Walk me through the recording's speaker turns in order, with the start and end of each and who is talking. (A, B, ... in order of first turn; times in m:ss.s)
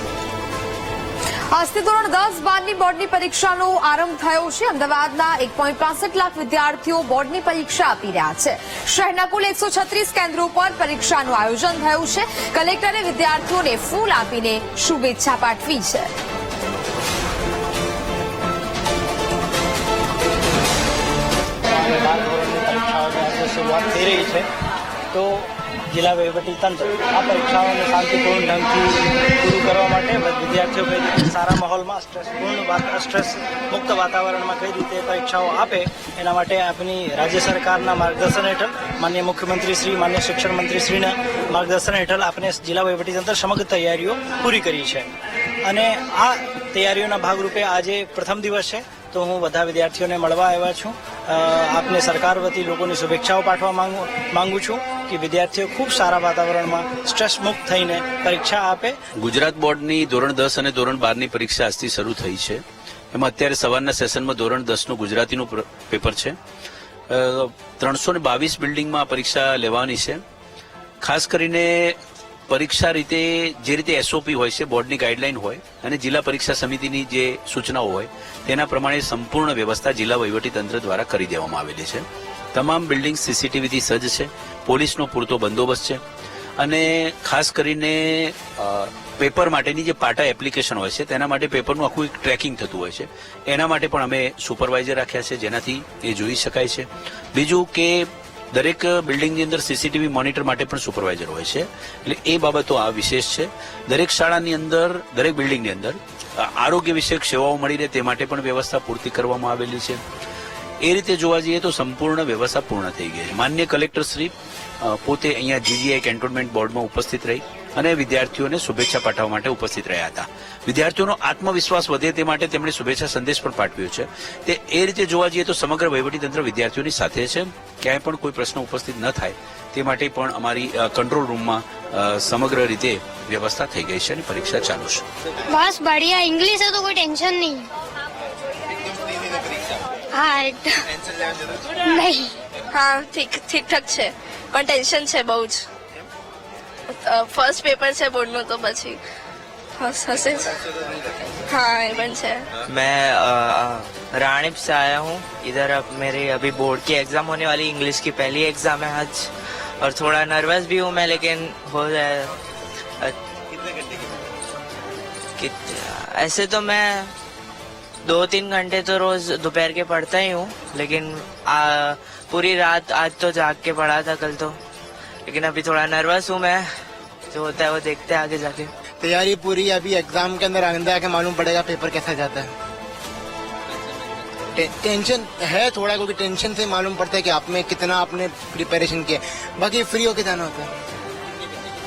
0:01.5-0:16.1 A
0:21.7-0:24.4 B
0:25.1-0:45.1 B
0:45.7-0:58.9 B
0:59.2-1:02.6 C
1:03.1-1:06.4 C
1:07.1-1:10.2 C
1:11.0-1:12.0 C
1:12.5-1:26.0 C
1:26.6-1:50.0 C
1:50.8-1:54.3 C
1:54.8-2:15.0 C
2:15.5-2:17.7 D
2:20.1-2:20.8 D
2:21.9-2:23.9 D
2:22.8-2:25.5 E
2:24.7-2:25.6 D
2:27.2-2:28.1 D
2:27.4-2:28.8 E
2:29.8-2:30.5 E
2:30.0-2:30.4 D
2:31.5-2:32.4 E
2:31.6-2:32.2 D
2:32.6-2:39.3 F
2:39.8-2:42.4 F
2:45.4-2:47.1 F
2:48.0-2:54.6 F
2:55.2-2:56.7 F
2:57.3-2:58.7 F
2:59.0-3:02.5 G
3:04.6-3:10.7 G